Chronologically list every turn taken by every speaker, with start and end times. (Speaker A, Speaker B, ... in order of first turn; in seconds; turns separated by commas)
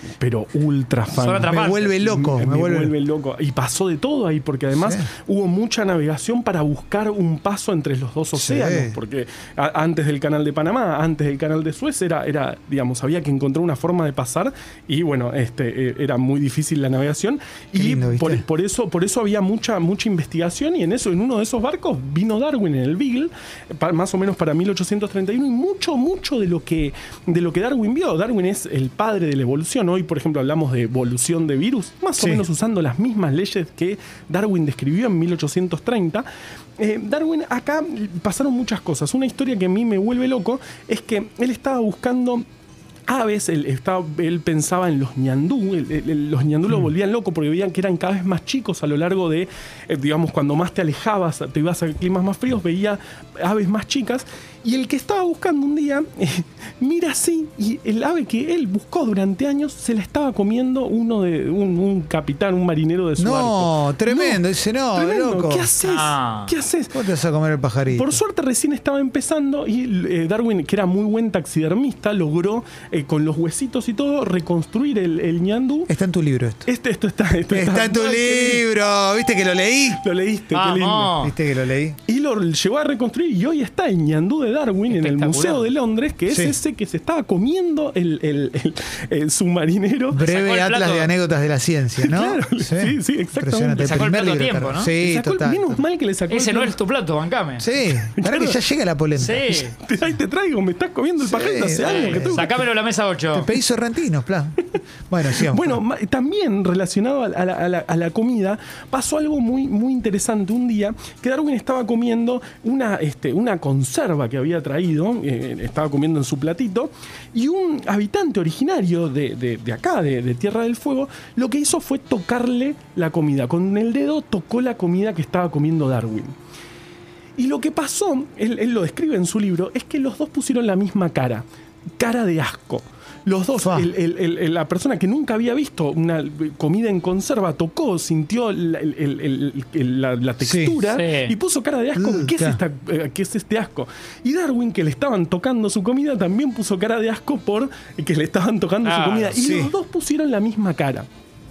Speaker A: 0.2-36.2, Speaker B: 1.1-1.8, Speaker C: 1.5-2.9, Speaker C: 4.7-5.1, Speaker C: 8.3-9.0, Speaker C: 17.7-18.4, Speaker A: 36.8-42.4, Speaker A: 43.1-67.0, Speaker C: 63.2-65.7, Speaker B: 65.8-66.5, Speaker C: 66.9-68.2, Speaker A: 67.9-75.9, Speaker C: 75.9-76.7, Speaker A: 76.7-78.7, Speaker C: 77.5-80.0, Speaker A: 79.9-81.2, Speaker B: 80.5-81.3, Speaker C: 81.2-82.0, Speaker A: 82.0-90.2, Speaker B: 84.9-85.7, Speaker C: 86.3-86.5, Speaker C: 90.1-95.8, Speaker B: 90.2-91.1, Speaker A: 92.0-94.0, Speaker B: 93.8-94.9, Speaker A: 95.0-96.8, Speaker B: 96.3-97.7, Speaker C: 97.6-99.6, Speaker A: 98.1-98.6, Speaker B: 99.2-99.7, Speaker A: 99.8-102.6, Speaker C: 101.2-102.6, Speaker B: 101.7-103.5, Speaker C: 103.3-105.8, Speaker A: 105.4-126.3, Speaker A: 127.4-131.4, Speaker A: 132.0-151.1, Speaker C: 133.6-133.9, Speaker C: 140.4-140.8, Speaker B: 140.9-141.3, Speaker C: 141.9-142.6, Speaker B: 148.8-149.3, Speaker C: 149.3-149.7